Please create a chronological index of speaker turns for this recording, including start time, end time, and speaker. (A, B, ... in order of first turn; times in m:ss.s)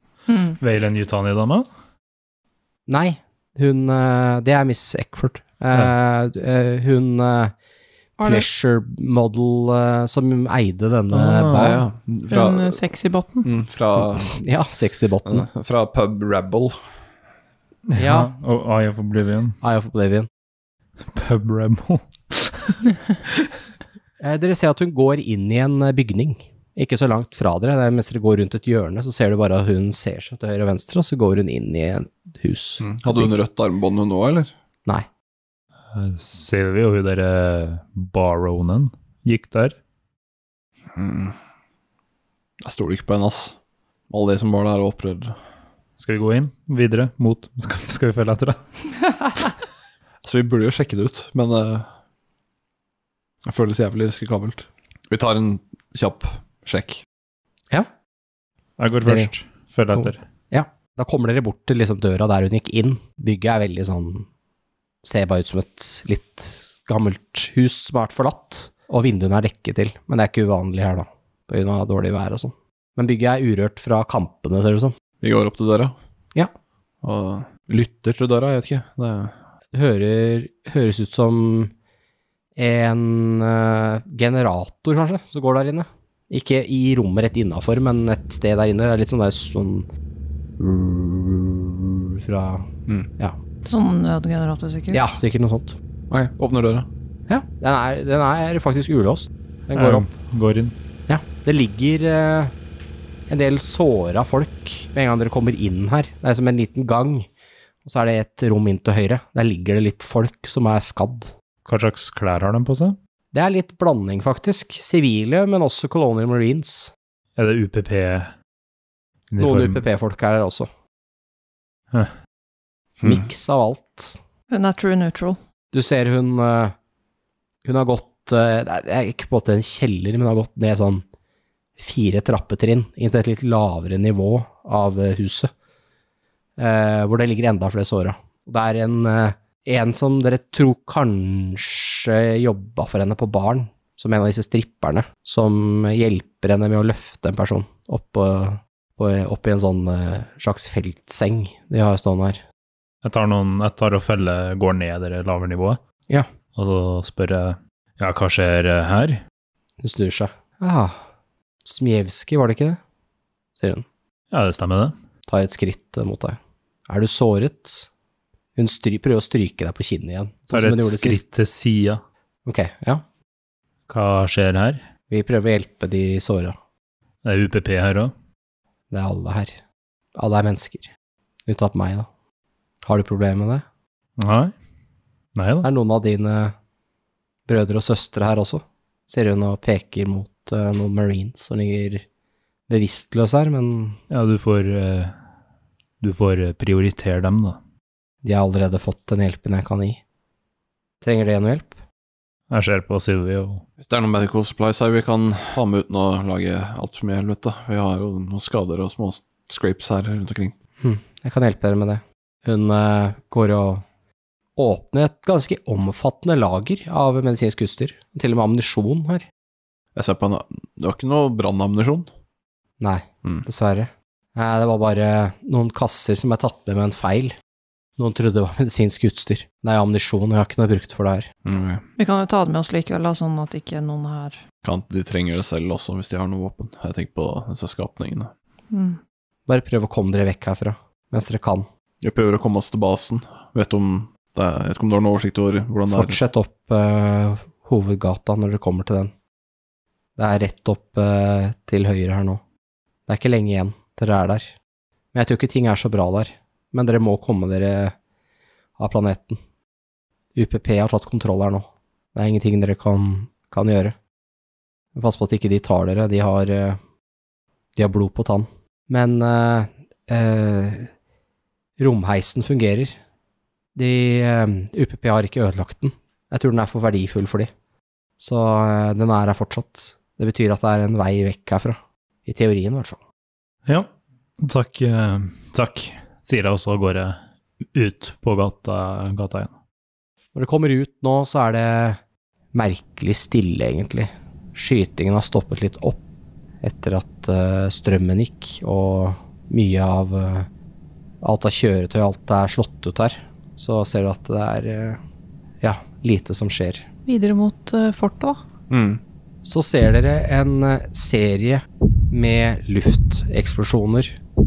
0:00.3-0:00.6 A
0:00.6-0:01.7 B
0:02.9-0:07.5 C
0:08.2-0:08.4 D
0:08.2-0:11.8 C
0:11.1-0:11.8 B
0:11.5-0:12.8 E
0:12.3-0:13.5 D
0:13.4-0:14.4 E
0:14.2-0:15.4 C
0:15.2-0:16.7 E
0:17.9-0:19.6 B
0:18.0-0:18.3 C
0:19.6-0:20.3 C
0:21.1-0:22.9 B
0:24.2-0:33.3 C
0:32.8-0:34.5 E
0:35.9-0:39.8 B
0:40.9-0:41.4 E
0:42.6-0:43.5 E
0:44.1-0:45.4 E
0:46.0-0:48.6 B
0:50.2-0:51.9 E
0:53.4-0:57.0 E
0:58.8-1:00.2 B
0:59.0-0:59.3 C
0:59.9-1:04.3 C
1:05.0-1:15.0 C
1:15.2-1:15.9 E
1:17.0-1:19.3 E
1:19.7-1:21.7 C
1:22.6-1:29.9 C
1:30.6-1:33.4 C
1:33.6-1:35.0 A
1:34.9-1:35.8 C
1:36.1-1:36.9 E
1:37.3-1:40.1 C
1:39.7-1:40.7 B
1:41.1-1:42.5 C
1:43.3-1:47.3 C
1:47.8-1:51.3 C
1:51.6-1:53.0 B
1:53.3-1:56.9 C
1:57.4-1:58.3 B
1:59.3-1:59.8 B
1:59.4-2:00.7 C
2:03.0-2:04.2 C
2:04.5-2:05.4 A
2:05.7-2:06.7 C
2:07.6-2:11.0 C
2:11.8-2:15.5 C
2:16.6-2:32.4 C
2:33.0-2:35.8 B
2:36.6-2:39.2 B
2:39.8-2:41.0 C
2:41.6-2:42.8 C
2:43.6-2:43.8 C
2:44.3-2:44.9 B
2:45.3-2:47.9 C
2:48.6-2:51.2 C
2:50.5-2:52.0 B
2:52.4-2:53.0 C
2:53.9-2:54.8 B
2:55.1-2:56.6 C
2:57.2-2:58.1 B
2:58.9-2:59.6 C
3:00.2-3:00.9 C
3:01.4-3:02.1 C
3:02.8-3:03.6 C
3:04.2-3:04.5 B
3:05.4-3:05.7 B
3:05.6-3:06.5 C
3:07.5-3:12.0 C
3:12.7-3:14.0 C
3:14.1-3:15.1 B
3:16.0-3:17.6 B
3:18.2-3:20.0 C
3:21.0-3:21.7 C
3:22.5-3:23.6 B
3:23.8-3:30.5 E
3:30.8-3:33.8 C
3:34.6-3:39.3 C
3:39.9-3:42.1 E
3:42.8-3:47.3 C
3:48.0-3:51.3 C
3:51.4-3:51.8 E
3:52.0-3:54.4 A
3:54.6-3:58.3 E
3:58.7-3:59.0 A
3:59.5-4:01.7 C
4:02.0-4:06.2 E
4:05.9-4:09.1 C
4:10.2-4:12.4 C
4:13.1-4:14.5 C
4:15.1-4:17.9 C
4:18.8-4:19.4 C
4:20.4-4:24.0 C
4:24.9-4:26.8 C
4:27.7-4:30.9 C
4:31.8-4:33.0 C
4:33.7-4:37.5 C
4:38.2-4:43.0 C
4:44.4-4:47.2 B
4:47.7-4:49.5 B
4:50.3-4:52.0 C
4:52.5-4:56.0 C
4:56.6-5:00.5 C
5:01.2-5:05.0 C
5:05.6-5:06.9 C
5:07.1-5:08.4 D
5:08.7-5:09.0 E
5:09.4-5:14.2 C